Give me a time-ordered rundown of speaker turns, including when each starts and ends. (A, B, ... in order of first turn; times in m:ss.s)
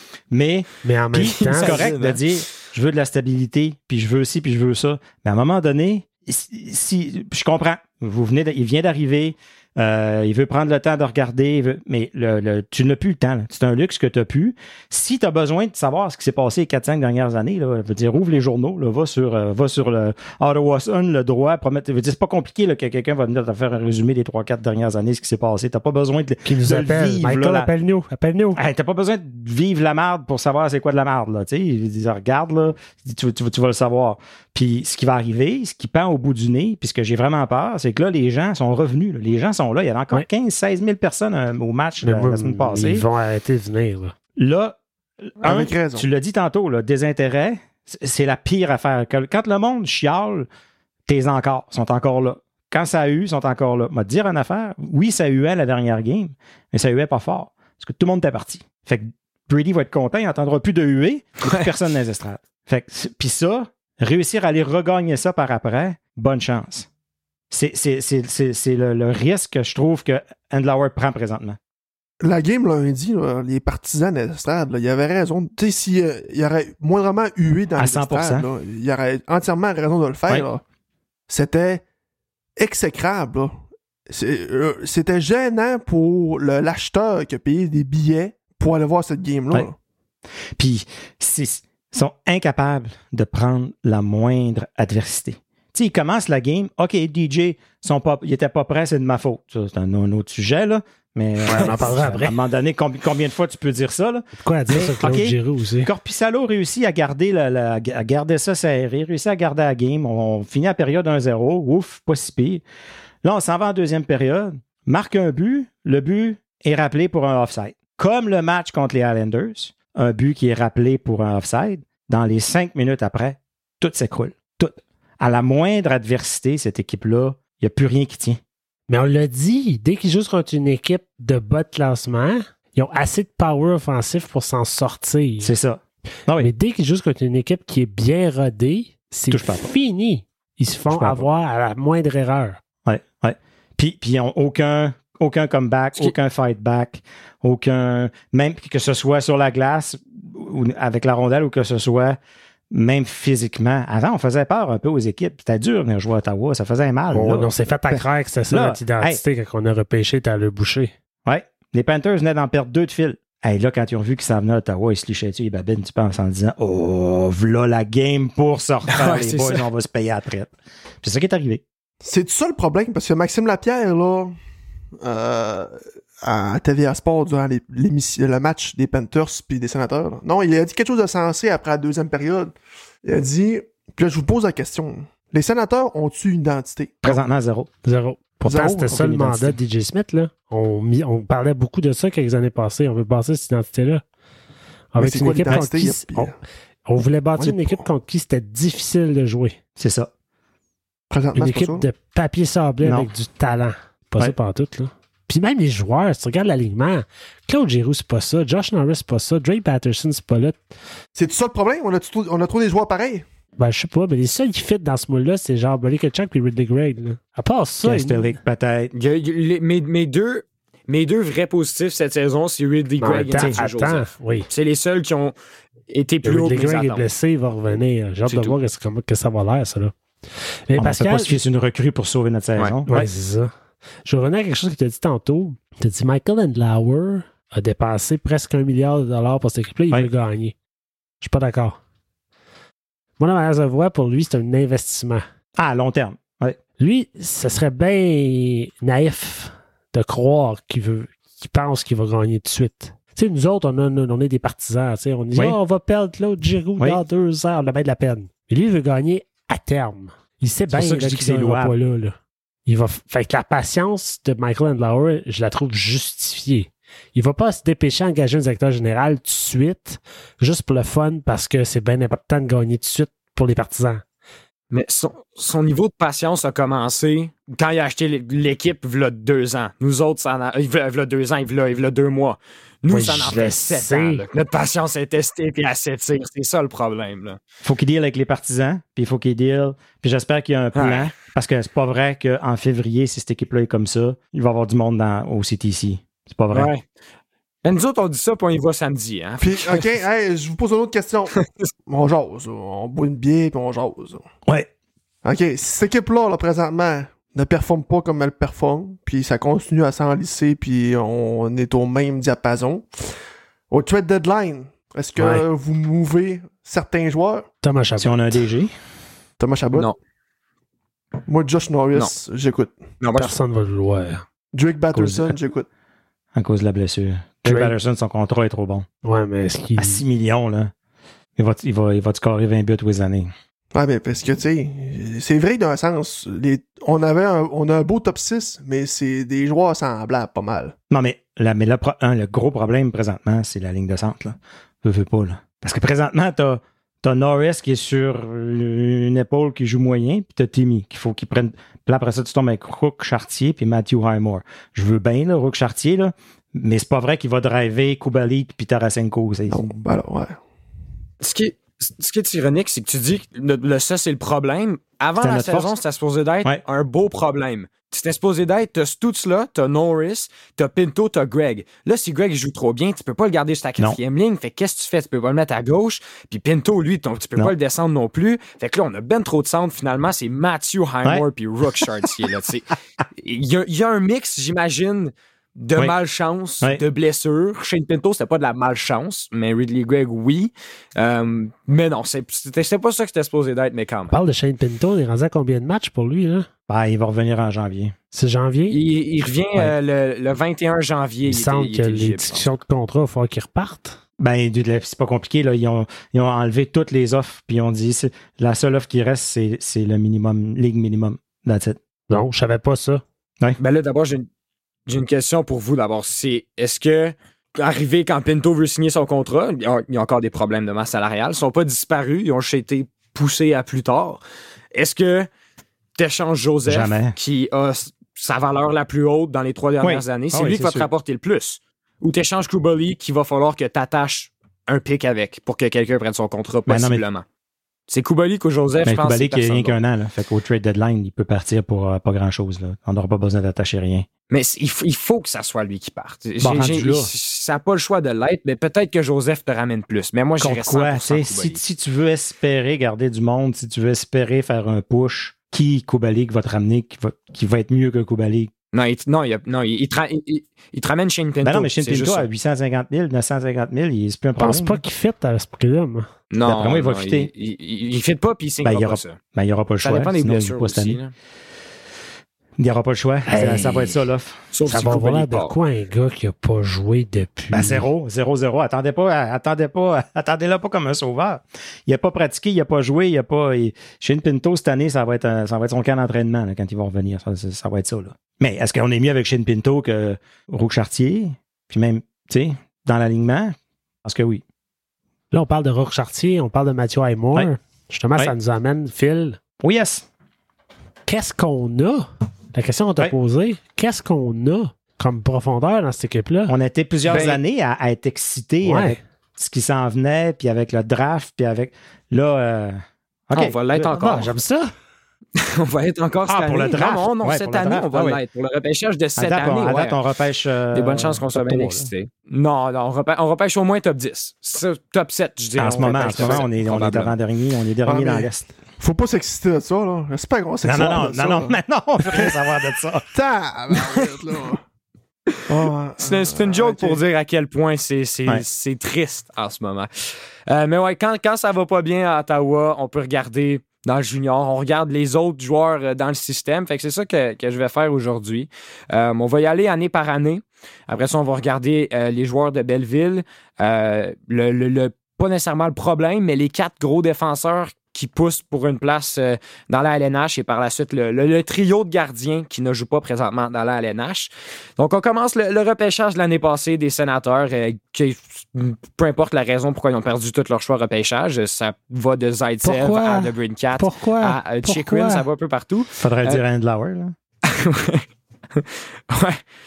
0:00.3-0:27.7 A
0:00.8-0:02.0 B
0:01.4-0:02.4 C
0:26.4-0:28.6 B
0:28.6-0:43.1 A
0:42.0-0:44.1 B
0:44.4-0:50.5 A
0:45.4-0:46.1 D
0:51.0-1:06.9 A
1:07.5-1:11.6 A
1:12.2-1:20.6 D
1:17.8-1:18.4 A
1:21.3-1:21.8 D
1:22.6-1:23.5 D
1:24.1-1:29.8 D
1:30.6-1:52.6 A
1:41.4-1:42.4 B
1:41.5-1:41.8 C
1:44.4-1:45.9 B
1:53.2-2:08.4 A
2:08.9-2:15.5 B
2:15.4-2:16.5 A
2:16.4-2:22.6 B
2:19.3-2:19.7 A
2:20.9-2:21.2 A
2:22.8-2:32.2 A
2:32.7-2:39.2 A
2:37.1-2:40.9 B
2:41.2-2:51.6 A
2:48.9-2:49.6 C
2:52.0-2:54.3 D
2:55.0-3:07.2 D
3:07.0-3:07.7 A
3:07.8-3:14.0 B
3:08.5-3:08.8 D
3:08.7-3:09.6 A
3:14.9-3:16.3 B
3:15.0-3:16.3 D
3:16.9-3:19.6 B
3:17.4-3:17.8 D
3:19.8-3:20.1 A
3:21.1-3:21.9 D
3:21.3-3:30.6 B
3:22.8-3:23.1 A
3:31.2-3:33.2 D
3:33.6-3:38.3 B
3:37.8-3:38.9 A
3:38.9-3:45.4 C
3:43.0-3:44.5 B
3:45.9-3:47.0 C
3:46.2-3:49.9 B
3:48.3-3:48.5 C
3:50.7-3:51.4 B
3:50.8-3:53.1 A
3:52.9-3:53.5 B
3:54.0-4:00.5 B
4:01.2-4:01.8 B
4:03.2-4:05.2 B
4:05.6-4:06.6 A
4:06.8-4:34.0 B
4:20.7-4:21.7 A
4:34.7-4:47.4 C
4:42.9-4:44.2 B
4:47.6-4:56.7 A
4:50.7-4:51.1 C
4:56.5-4:56.8 C
4:57.6-4:59.9 C
4:59.4-5:04.2 D
5:05.2-5:13.0 D
5:13.7-5:17.5 D
5:15.2-5:15.4 B
5:17.6-5:18.4 B
5:18.0-5:18.7 A
5:19.4-5:19.9 D
5:21.2-5:22.8 D
5:23.0-5:23.4 C
5:23.1-5:24.2 B
5:24.5-5:25.7 D
5:24.9-5:25.3 A
5:26.3-5:28.8 A
5:27.4-5:27.7 B
5:29.0-5:30.0 B
5:29.8-5:30.7 A
5:31.4-5:33.3 A
5:33.7-5:40.7 D
5:40.9-5:59.7 A
5:59.5-6:00.4 D
6:01.2-6:34.1 C
6:05.2-6:05.8 A
6:34.1-6:36.5 B
6:36.7-6:37.9 A
6:38.1-6:38.8 B
6:38.7-6:42.5 C
6:41.3-6:44.0 B
6:44.2-6:51.8 A
6:52.1-6:53.0 B
6:53.6-6:54.3 C
6:54.9-7:04.2 C
7:04.7-7:05.3 C
7:06.0-7:17.2 C
7:06.6-7:07.1 A
7:09.8-7:10.9 A
7:16.7-7:17.0 A
7:17.9-7:19.8 C
7:18.8-7:24.1 A
7:24.3-7:31.6 C
7:26.4-7:27.1 A
7:30.4-7:38.5 A
7:38.7-7:42.3 C
7:41.4-7:44.8 A
7:44.4-7:46.1 B
7:46.3-7:49.2 C
7:46.4-7:47.3 A
7:48.6-7:51.0 A
7:49.8-7:51.1 C
7:52.6-7:54.4 A
7:53.3-7:53.9 B
7:54.5-7:55.5 C
7:54.6-7:57.9 B
7:57.5-8:14.4 A
8:15.3-8:19.4 B
8:19.6-8:20.0 A
8:21.1-8:26.5 B
8:26.5-8:33.9 A
8:27.0-8:27.4 C
8:28.6-8:29.0 B
8:33.3-8:34.3 C
8:33.9-8:34.7 B
8:35.4-8:40.0 C
8:36.3-8:38.2 A
8:39.2-8:41.9 A
8:40.7-8:47.1 C
8:45.6-8:48.5 A
8:46.0-8:46.4 D
8:47.8-8:51.5 D
8:50.6-8:53.1 A
8:52.0-8:52.3 D
8:53.1-8:54.6 D
8:55.4-8:59.9 C
8:55.5-8:57.0 D
9:00.5-9:36.4 C
9:32.6-9:35.2 B
9:36.0-9:37.1 A
9:37.4-9:38.0 C
9:38.5-9:39.4 C